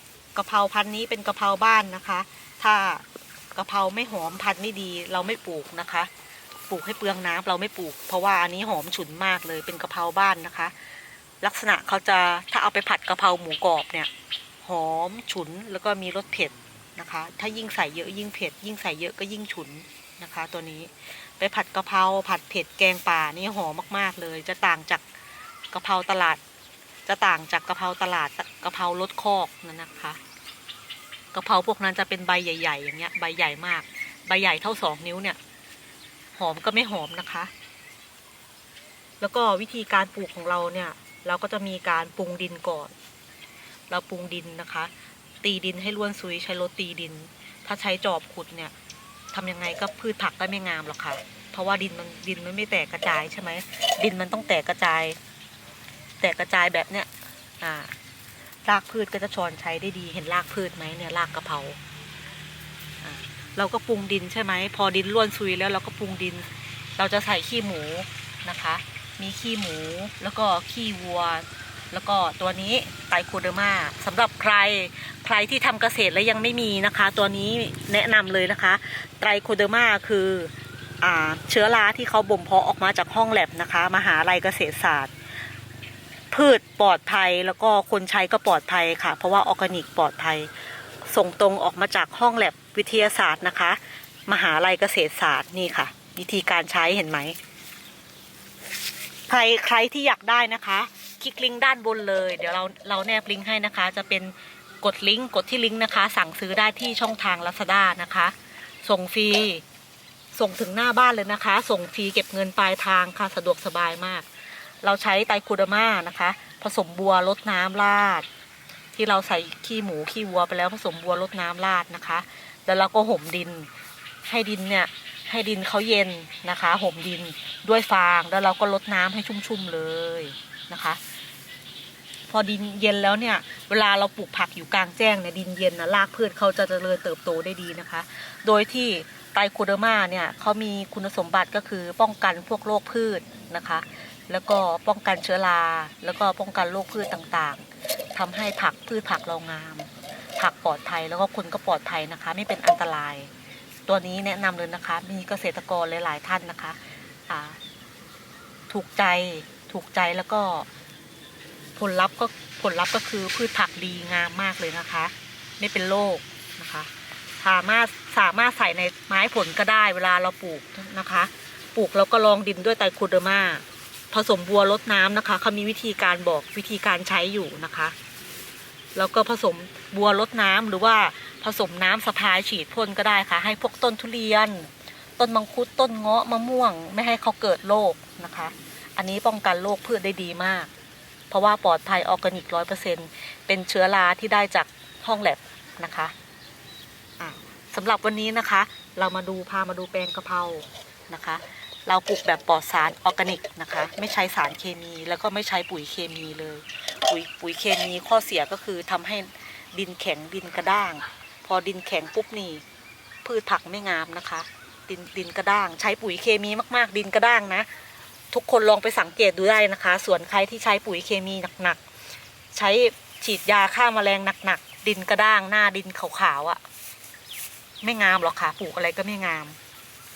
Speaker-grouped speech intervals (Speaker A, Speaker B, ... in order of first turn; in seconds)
Speaker A: 0.3-6.1, 6.7-10.7, 11.4-14.1, 14.6-25.0, 25.7-26.4, 27.1-30.2, 31.3-35.4, 36.4-37.5, 39.2-42.9, 43.9-44.9, 45.4-48.7, 49.3-55.2, 56.2-57.1, 57.6-57.9, 58.6-61.8, 63.0-85.1, 86.3-90.5, 91.1-97.4, 99.3-109.6, 110.3-114.3, 114.8-118.3, 119.0-123.7, 124.2-131.0, 132.3-153.3, 153.9-157.6, 158.7-160.7, 161.8-177.9, 178.9-190.7, 191.3-196.1, 197.2-212.6, 213.2-217.7, 218.3-221.8, 222.5-226.6, 227.8-229.6